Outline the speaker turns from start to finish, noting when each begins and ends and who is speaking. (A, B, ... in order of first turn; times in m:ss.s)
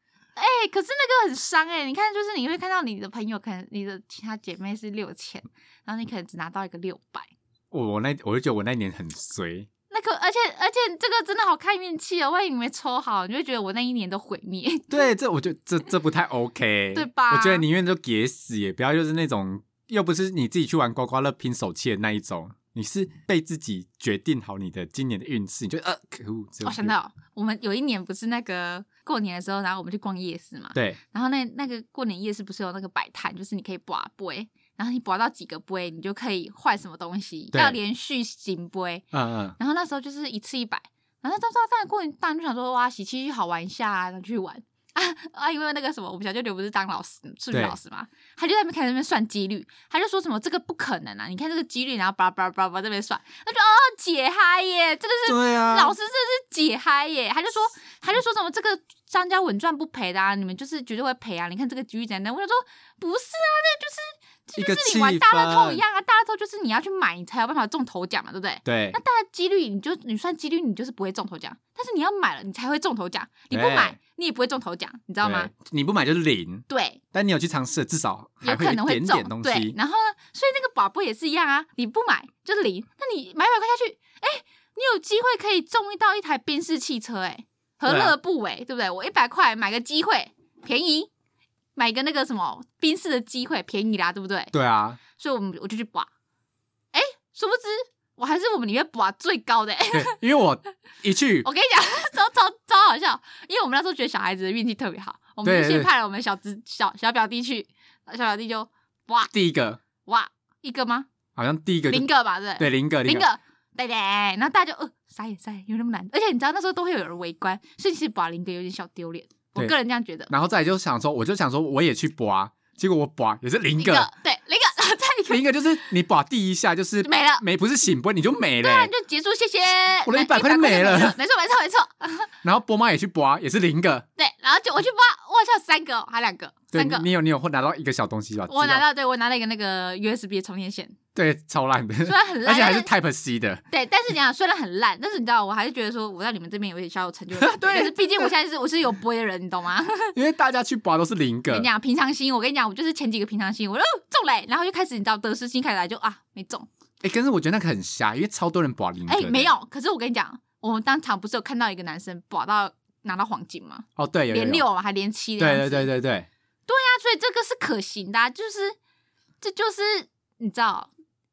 0:00.4-0:07.3 A
0:07.7-0:09.7 B
0:09.9-0:15.1 A
0:14.9-0:26.9 B
0:16.9-0:17.6 A
0:26.6-0:39.1 A
0:37.5-0:37.8 B
0:39.1-0:39.6 B
0:39.6-1:15.5 A
0:55.2-0:56.0 B
1:04.6-1:05.8 B
1:08.6-1:09.0 B
1:13.5-1:14.0 B
1:15.2-1:19.8 B
1:16.7-1:17.0 A
1:18.4-1:31.1 A
1:27.8-1:28.1 B
1:31.8-1:34.5 A
1:34.5-1:35.0 B
1:35.1-1:36.1 A
1:36.9-1:40.2 A
1:39.9-1:41.5 B
1:41.4-1:49.3 A
1:45.4-1:45.9 B
1:49.3-1:49.8 B
1:50.0-1:51.1 A
1:51.3-1:53.3 B
1:51.9-2:00.3 A
2:00.3-2:04.1 B
2:03.8-2:05.4 A
2:05.3-2:08.9 B
2:07.0-2:07.4 A
2:08.6-2:12.3 A
2:10.0-2:11.2 B
2:12.4-2:14.0 B
2:14.2-2:17.1 A
2:16.7-2:18.8 B
2:18.5-2:21.0 A
2:21.1-2:23.6 B
2:22.0-2:22.9 A
2:23.7-2:30.2 A
2:27.4-2:28.3 B
2:30.1-2:31.7 B
2:31.5-2:36.7 A
2:37.0-2:39.5 B
2:39.1-2:45.9 A
2:44.0-2:44.6 B
2:45.4-2:46.3 B
2:46.7-2:48.8 A
2:49.4-2:50.9 A